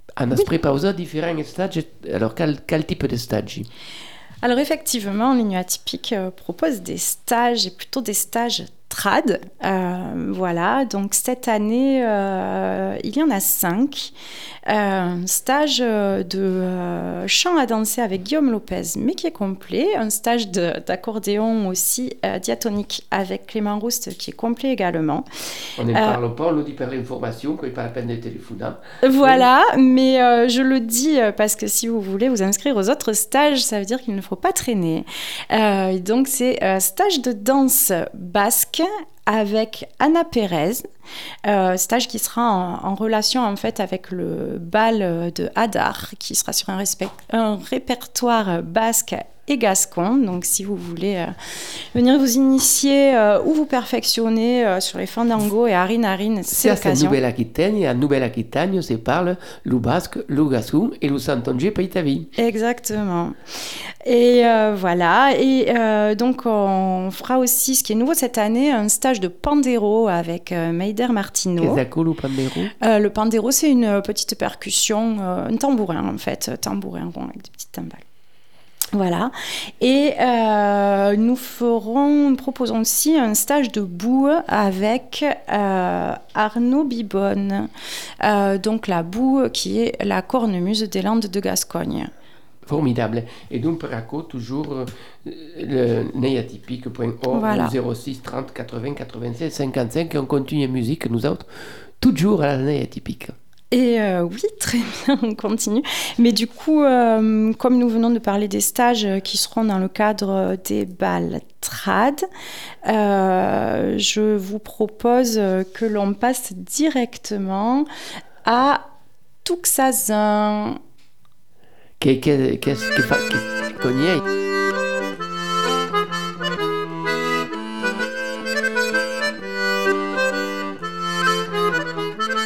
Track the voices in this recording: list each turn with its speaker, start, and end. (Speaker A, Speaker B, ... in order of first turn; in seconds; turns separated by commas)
Speaker A: 0.2-3.7, Speaker B: 4.4-14.1, Speaker B: 14.7-25.2, Speaker A: 25.8-29.4, Speaker B: 25.9-26.2, Speaker B: 29.0-40.9, Speaker B: 41.5-51.3, Speaker B: 51.9-57.2, Speaker A: 56.5-62.3, Speaker B: 62.4-63.4, Speaker B: 64.0-71.8, Speaker A: 71.6-72.7, Speaker B: 72.8-78.0, Speaker B: 78.9-87.7, Speaker B: 88.2-92.1, Speaker A: 92.7-101.5, Speaker B: 97.3-97.7, Speaker A: 102.0-103.3, Speaker B: 103.7-112.2, Speaker B: 112.8-117.8, Speaker B: 118.4-118.9, Speaker B: 119.4-120.8, Speaker A: 122.0-124.2